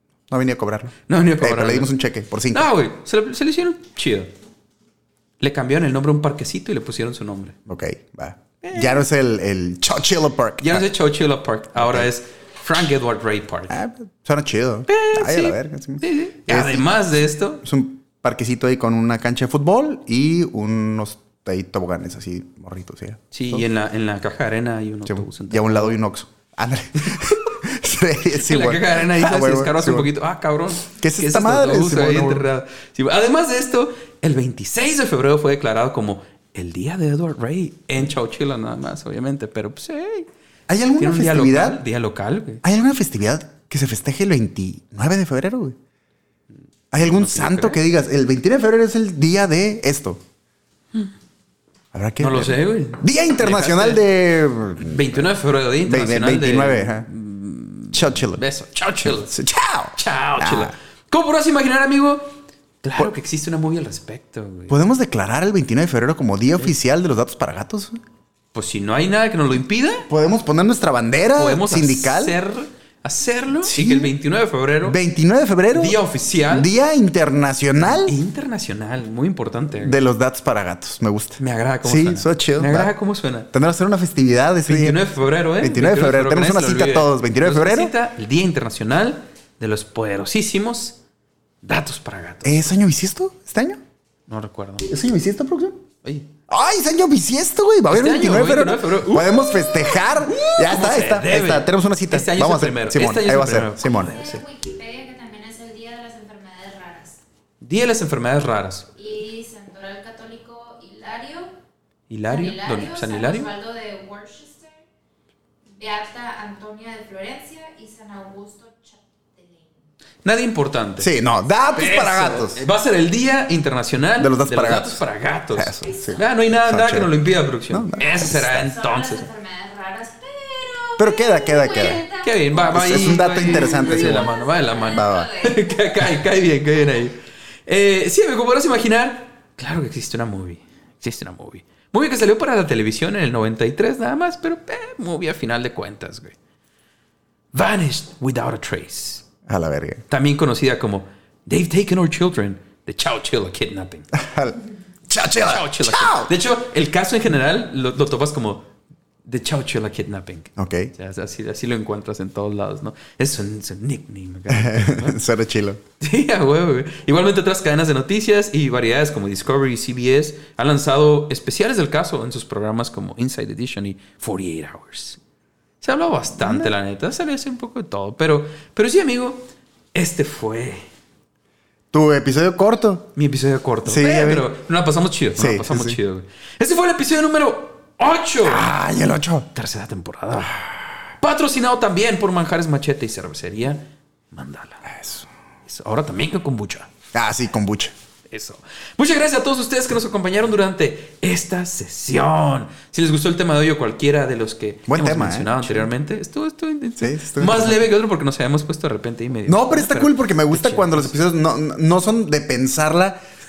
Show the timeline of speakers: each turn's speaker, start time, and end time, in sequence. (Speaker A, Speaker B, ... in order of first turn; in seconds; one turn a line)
Speaker A: 0.3-2.7
Speaker B: 1.1-1.9
Speaker B: 2.5-4.3
Speaker B: 5.4-7.6
Speaker A: 7.7-10.9
Speaker B: 8.6-9.1
Speaker B: 10.6-13.8
Speaker A: 11.8-12.1
Speaker A: 13.7-23.6
Speaker B: 14.9-17.6
Speaker B: 23.3-26.0
Speaker A: 25.1-30.1
Speaker B: 28.4-40.3
Speaker A: 30.8-32.5
Speaker A: 40.7-41.8
Speaker B: 41.0-42.6
Speaker A: 42.6-45.8
Speaker A: 46.9-50.2
Speaker B: 47.0-47.8
Speaker A: 51.9-55.2
Speaker B: 52.2-54.1
Speaker B: 54.8-59.3
Speaker A: 55.8-57.1
Speaker A: 57.9-58.4
Speaker A: 59.0-60.7
Speaker B: 60.0-64.8
Speaker A: 64.7-68.0
Speaker B: 68.5-70.1
Speaker A: 70.1-72.4
Speaker B: 71.4-75.0
Speaker A: 73.6-74.1
Speaker A: 74.8-76.0
Speaker B: 75.7-76.7
Speaker A: 76.5-78.2
Speaker B: 77.8-80.0
Speaker A: 79.8-82.9
Speaker B: 81.4-83.5
Speaker A: 83.5-85.0
Speaker B: 84.7-91.0
Speaker A: 85.6-87.9
Speaker B: 91.6-92.7
Speaker A: 92.4-93.8
Speaker B: 94.3-94.9
Speaker A: 94.9-95.8
Speaker B: 96.0-96.3
Speaker A: 96.5-104.1
Speaker B: 97.9-104.4
Speaker C: 103.8-107.2
Speaker B: 107.6-108.9
Speaker C: 109.0-111.5
Speaker B: 112.1-113.5
Speaker C: 112.3-114.8
Speaker C: 115.7-119.8
Speaker B: 120.2-121.1
Speaker A: 121.0-122.6
Speaker B: 121.8-129.3
Speaker A: 124.2-125.0
Speaker A: 125.5-127.1
Speaker C: 125.8-126.2
Speaker A: 127.7-128.6
Speaker C: 128.0-136.2
Speaker A: 131.0-132.0
Speaker B: 132.1-146.4
Speaker A: 132.7-134.3
Speaker A: 134.9-135.3
Speaker B: 147.5-149.2
Speaker A: 149.5-150.0
Speaker B: 150.1-154.1
Speaker A: 154.1-156.3
Speaker B: 155.4-158.7
Speaker B: 159.3-165.2
Speaker A: 160.6-160.9
Speaker A: 164.5-165.8
Speaker B: 166.0-175.2
Speaker B: 175.8-180.9
Speaker A: 176.4-176.7
Speaker A: 181.9-183.1
Speaker B: 183.2-188.7
Speaker A: 183.9-184.5
Speaker A: 185.4-186.0
Speaker A: 188.4-189.5
Speaker B: 189.5-190.7
Speaker B: 191.2-194.9
Speaker A: 194.9-195.3
Speaker B: 195.7-196.9
Speaker A: 197.1-197.9
Speaker B: 198.3-211.2
Speaker A: 204.9-205.9
Speaker A: 207.0-207.9
Speaker A: 209.5-213.2